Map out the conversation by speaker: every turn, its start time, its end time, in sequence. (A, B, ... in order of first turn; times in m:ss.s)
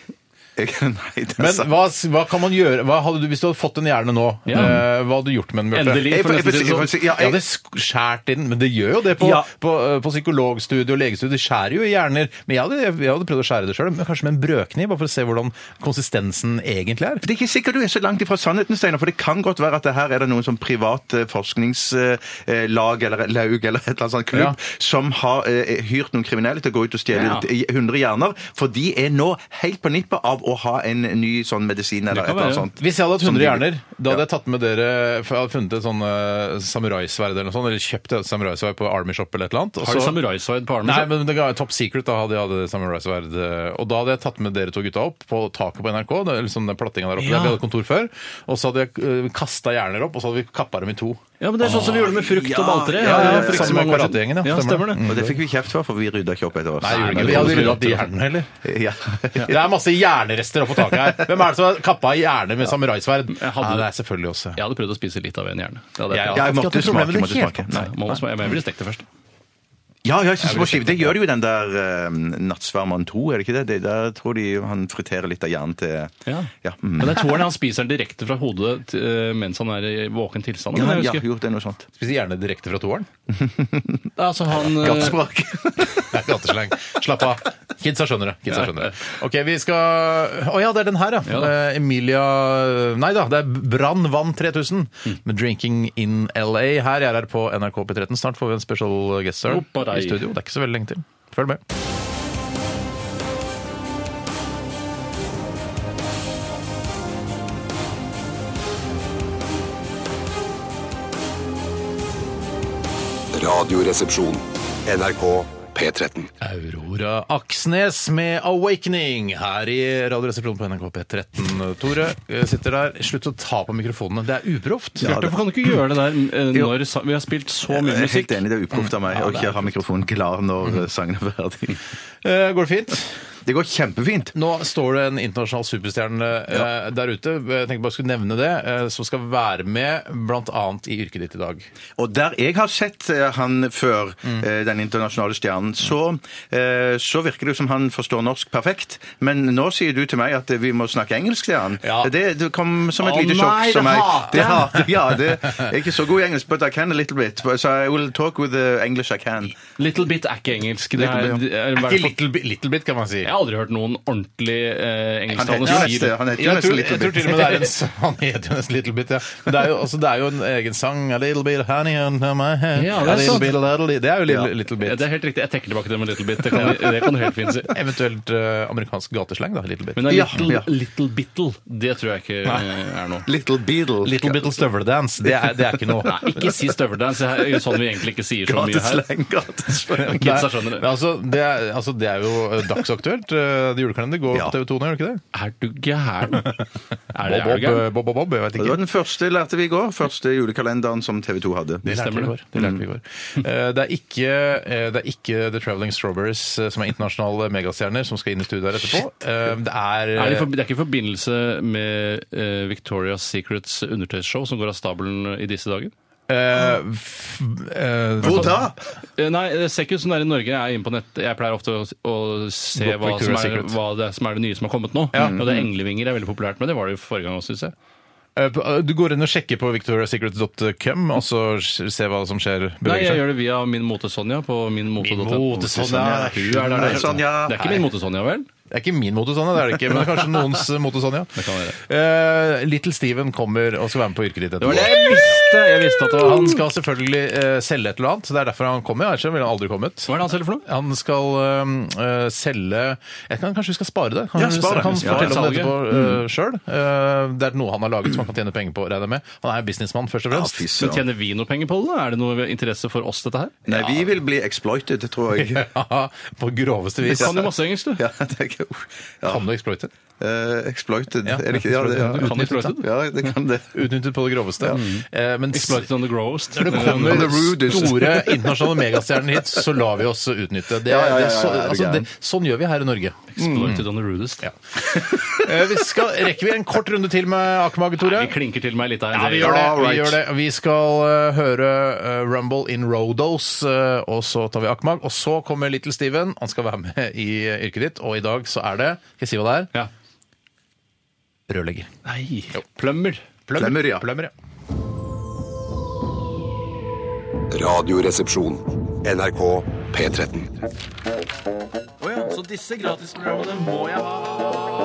0:00.6-0:01.7 A
0:01.4-0:06.1 B
0:04.5-0:04.8 C
0:05.7-0:07.0 C
0:06.1-0:07.4 A
0:07.1-0:17.2 B
0:09.2-0:09.4 A
0:17.2-0:34.2 A
0:24.3-0:24.6 B
0:27.1-0:27.5 C
0:32.1-0:32.7 C
0:32.8-0:40.2 B
0:39.8-0:41.1 C
0:40.8-0:52.1 B
0:47.2-0:47.6 C
0:51.4-0:55.1 C
0:51.6-0:53.9 A
0:53.0-0:55.4 B
0:55.0-0:58.0 A
0:56.8-0:58.5 B
0:56.9-0:58.0 C
0:58.6-0:59.6 A
0:59.4-1:04.6 B
1:00.9-1:01.2 A
1:03.3-1:03.9 C
1:04.6-1:06.5 C
1:06.1-1:07.9 B
1:06.3-1:07.9 A
1:07.7-1:09.1 C
1:10.0-1:17.4 A
1:10.4-1:11.1 B
1:16.3-1:21.2 C
1:20.8-1:21.9 A
1:22.0-1:23.1 B
1:23.4-1:24.0 A
1:24.2-1:25.2 C
1:24.6-1:26.2 A
1:26.1-1:41.6 B
1:28.6-1:28.9 C
1:31.3-1:31.5 C
1:39.5-1:40.3 C
1:53.3-1:56.3 D
1:56.4-2:05.2 B
2:05.0-2:08.4 C
2:05.0-2:05.4 A
2:07.7-2:11.8 A
2:09.2-2:09.5 C
2:12.2-2:13.2 B
2:13.4-2:14.3 A
2:14.3-2:21.7 B
2:22.0-2:39.6 A
2:31.8-2:32.1 B
2:33.0-2:35.7 B
2:39.8-2:42.2 C
2:41.0-2:41.4 A
2:41.7-2:43.3 B
2:43.2-2:46.1 C
2:45.3-2:47.7 A
2:45.6-2:55.1 B
2:52.8-2:53.5 C
2:54.8-2:57.7 C
2:56.5-2:57.0 B
2:57.7-3:00.6 B
3:00.0-3:03.3 C
3:00.1-3:00.7 A
3:03.3-3:04.6 A
3:04.0-3:06.6 B
3:05.2-3:06.1 A
3:06.0-3:09.0 C
3:08.4-3:10.3 A
3:09.9-3:15.2 B
3:10.1-3:10.9 C
3:15.3-3:16.6 C
3:17.1-3:17.8 C
3:17.2-3:18.8 B
3:18.6-3:21.9 A
3:21.8-3:30.5 B
3:21.9-3:22.4 C
3:22.6-3:22.8 A
3:30.2-3:35.9 C
3:36.3-3:38.7 B
3:38.2-3:38.8 A
3:39.2-3:47.7 C
3:42.8-3:43.8 B
3:45.1-3:45.4 B
3:45.2-3:45.7 A
3:48.4-3:53.2 B
3:52.8-3:58.5 C
3:55.0-3:57.8 B
3:55.8-3:57.6 A
3:58.7-4:05.4 B
4:01.4-4:01.8 C
4:04.6-4:06.6 C
4:06.2-4:20.7 B
4:10.1-4:10.6 C
4:14.4-4:16.2 A
4:14.8-4:15.8 C
4:20.3-4:21.0 A
4:20.8-4:23.9 C
4:23.7-4:25.7 A
4:25.3-4:27.4 B
4:27.0-4:28.0 C
4:28.0-4:29.4 A
4:29.2-4:29.9 B
4:30.2-4:33.8 A
4:31.2-4:32.8 B
4:32.2-4:32.8 C
4:33.7-4:35.9 B
4:34.7-4:37.5 C
4:36.5-4:43.9 B
4:36.7-4:38.8 A
4:40.8-4:42.1 A
4:43.4-4:44.5 C
4:44.4-4:48.3 B
4:45.0-4:45.5 A
4:48.0-4:49.6 C
4:49.1-4:59.7 B
4:49.4-4:50.2 A
5:01.5-5:01.9 B
5:02.0-5:03.2 C
5:03.5-5:04.3 B
5:03.6-5:04.0 A
5:07.5-5:10.6 D
5:12.0-5:14.2 C